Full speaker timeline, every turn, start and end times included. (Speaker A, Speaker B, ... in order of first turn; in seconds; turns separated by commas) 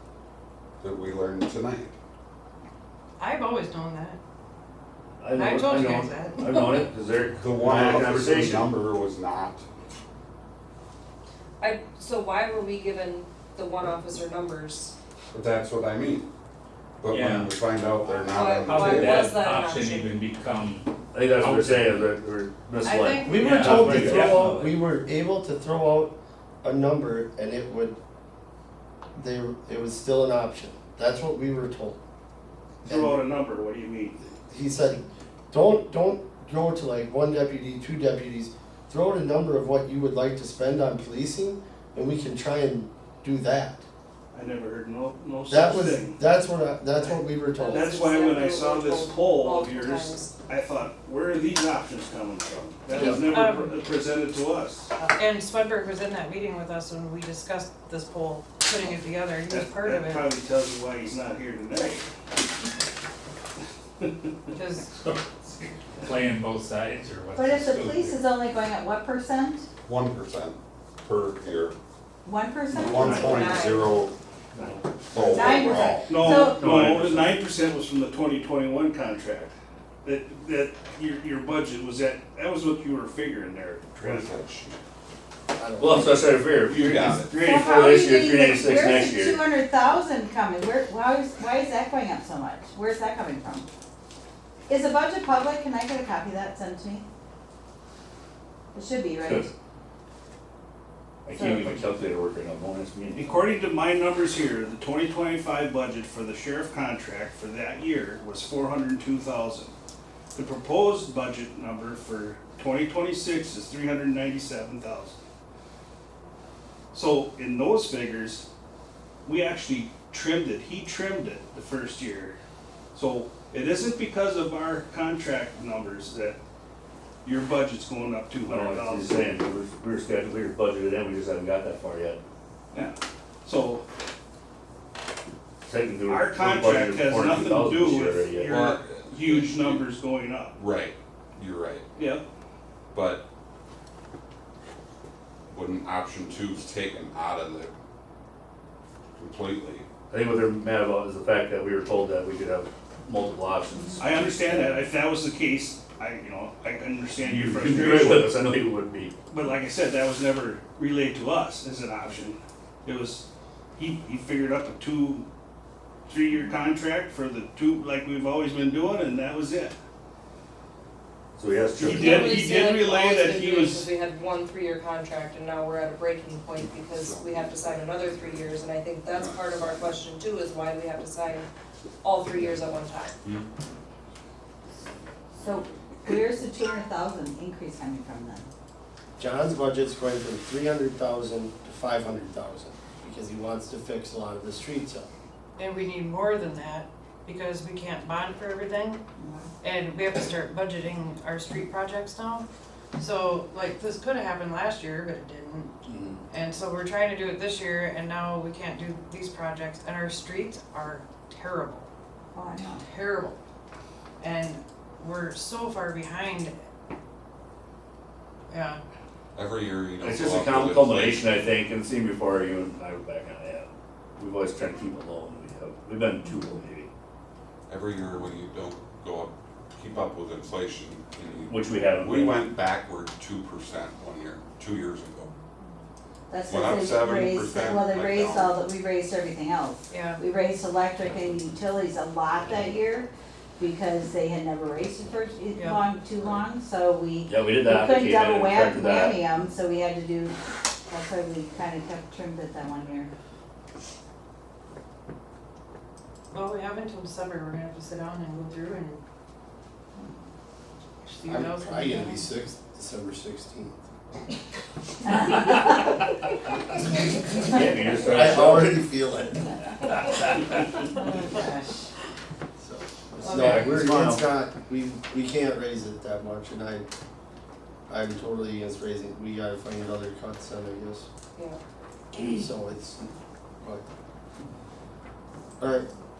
Speaker A: 0.8-1.9, Speaker B: 3.2-4.2, Speaker C: 5.2-8.7, Speaker B: 5.3-6.9, Speaker A: 7.4-9.6, Speaker D: 11.6-14.9, Speaker A: 15.3-16.3, Speaker A: 17.0-19.2, Speaker E: 17.1-17.5, Speaker D: 18.3-20.2, Speaker E: 18.7-22.2, Speaker C: 21.1-24.4, Speaker B: 22.8-23.6, Speaker F: 23.2-28.0, Speaker E: 23.4-24.8, Speaker F: 29.2-32.0, Speaker F: 32.8-33.2, Speaker G: 32.8-34.2, Speaker F: 34.2-43.8, Speaker G: 44.3-46.2, Speaker F: 45.5-48.0, Speaker G: 47.0-54.8, Speaker D: 47.6-50.3, Speaker B: 52.9-53.8, Speaker F: 53.0-53.2, Speaker B: 55.0-60.3, Speaker G: 59.5-62.0, Speaker G: 64.0-64.3, Speaker B: 64.5-64.8, Speaker E: 65.0-68.2, Speaker H: 67.3-69.7, Speaker A: 69.9-71.8, Speaker H: 72.2-73.5, Speaker C: 72.7-73.5, Speaker A: 72.7-74.1, Speaker D: 73.2-73.9, Speaker C: 74.5-74.9, Speaker A: 75.1-76.2, Speaker H: 75.1-76.7, Speaker C: 76.1-77.5, Speaker G: 76.1-84.3, Speaker A: 83.9-84.8, Speaker F: 85.5-86.3, Speaker C: 85.8-89.4, Speaker A: 86.7-87.4, Speaker H: 87.3-93.7, Speaker H: 94.7-97.0, Speaker H: 98.7-99.5, Speaker C: 99.2-99.5, Speaker C: 101.2-103.6, Speaker G: 103.2-109.7, Speaker G: 110.3-115.1, Speaker G: 116.9-118.4, Speaker G: 119.2-122.4, Speaker G: 122.9-126.4, Speaker G: 127.2-129.3, Speaker C: 128.4-132.2, Speaker G: 132.7-133.8, Speaker C: 135.6-138.7, Speaker G: 136.1-140.6, Speaker A: 138.3-139.9, Speaker A: 140.6-141.9, Speaker G: 142.0-142.2, Speaker A: 142.9-143.2, Speaker A: 145.5-147.7, Speaker A: 149.2-149.9, Speaker C: 150.1-154.9, Speaker G: 154.0-158.3, Speaker C: 157.2-159.1, Speaker G: 159.3-165.2, Speaker G: 166.1-169.7, Speaker C: 171.3-172.5, Speaker D: 171.8-181.4, Speaker G: 171.8-173.9, Speaker A: 176.9-180.0, Speaker D: 182.0-183.1, Speaker A: 183.2-183.5, Speaker H: 185.4-188.4, Speaker F: 189.2-195.1, Speaker B: 195.6-199.0, Speaker H: 199.2-199.5, Speaker B: 199.6-205.7, Speaker C: 205.9-206.2, Speaker B: 206.3-211.9, Speaker H: 212.3-212.8, Speaker B: 212.8-213.3, Speaker B: 214.2-216.5, Speaker B: 218.5-218.8, Speaker A: 219.3-221.3, Speaker C: 220.0-226.9, Speaker A: 227.7-235.3, Speaker C: 231.5-232.5, Speaker H: 236.3-253.1, Speaker A: 236.5-238.6, Speaker B: 239.9-240.2, Speaker B: 245.6-245.8, Speaker C: 247.3-249.2, Speaker B: 256.3-259.0, Speaker B: 261.0-262.3, Speaker F: 261.3-263.9, Speaker H: 265.2-265.7, Speaker C: 267.3-268.8, Speaker F: 268.0-269.6, Speaker H: 270.9-271.8, Speaker F: 272.6-276.9, Speaker B: 273.2-273.6, Speaker C: 273.3-274.3, Speaker F: 277.9-281.1, Speaker F: 282.2-283.0, Speaker F: 285.6-285.9